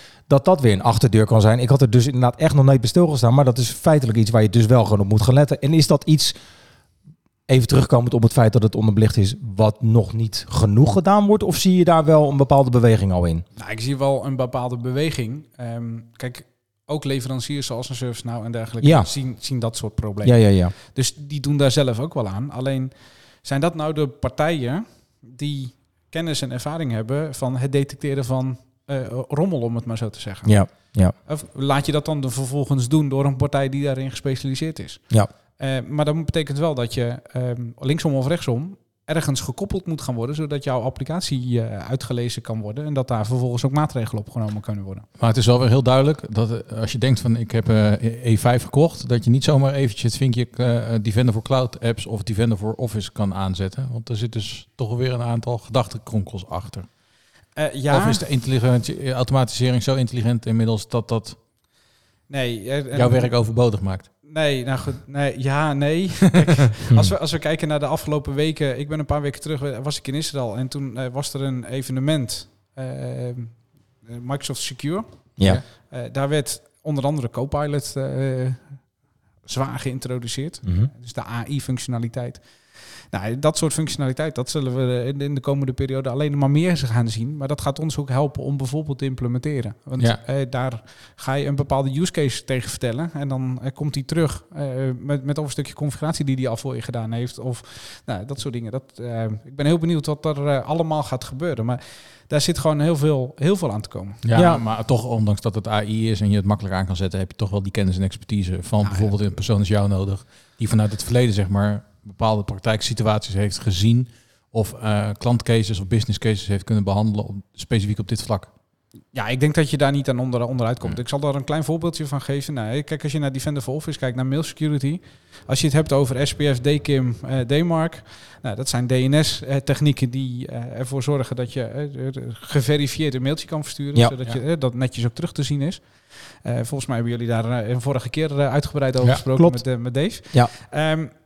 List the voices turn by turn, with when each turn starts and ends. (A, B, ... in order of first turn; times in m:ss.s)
0:00.3-0:06.4 A
0:07.5-0:13.4 A
0:13.6-0:35.0 B
0:18.8-0:19.1 A
0:20.2-0:20.7 A
0:30.4-0:31.1 A
0:35.6-0:45.0 B
0:45.2-0:56.9 C
0:57.6-0:58.2 B
0:57.9-1:01.4 C
1:02.3-1:03.3 B
1:02.9-1:04.1 C
1:04.2-1:18.8 B
1:19.4-1:22.4 B
1:20.6-1:20.9 A
1:23.1-1:44.2 B
1:44.2-1:58.5 C
1:44.3-1:44.6 A
1:48.8-1:49.1 B
1:59.1-2:15.8 B
2:16.4-2:21.1 B
2:19.3-2:19.6 A